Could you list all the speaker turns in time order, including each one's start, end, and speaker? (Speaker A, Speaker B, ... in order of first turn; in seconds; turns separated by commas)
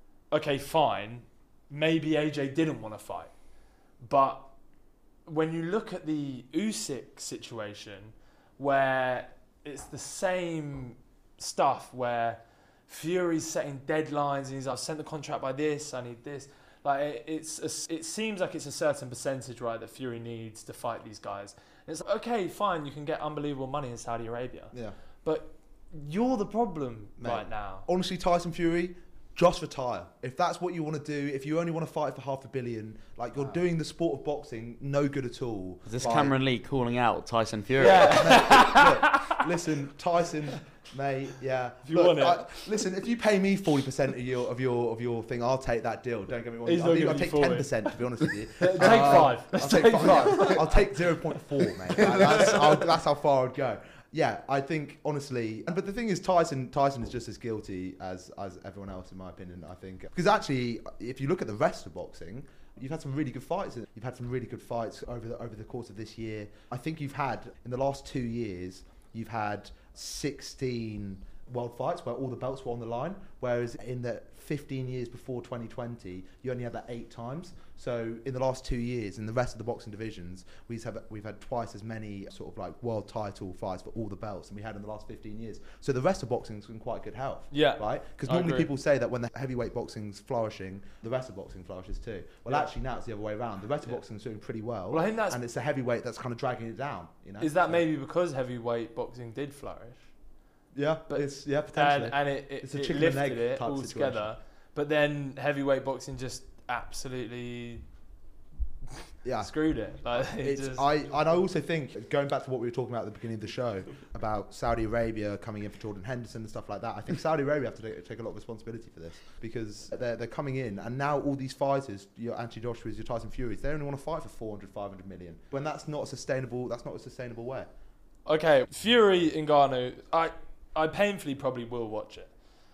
Speaker A: 0.3-3.3, Speaker A: 4.0-4.5, Speaker A: 5.3-27.9, Speaker B: 27.2-36.4, Speaker C: 35.9-38.3, Speaker A: 37.8-39.4, Speaker B: 38.0-97.8, Speaker A: 41.8-42.7, Speaker A: 46.7-48.0, Speaker A: 48.6-51.0, Speaker A: 87.5-88.7, Speaker A: 94.9-95.4, Speaker A: 97.4-100.1, Speaker B: 100.7-104.3, Speaker A: 101.1-107.8, Speaker B: 109.2-109.5, Speaker A: 109.4-110.9, Speaker B: 110.1-127.7, Speaker A: 128.3-132.4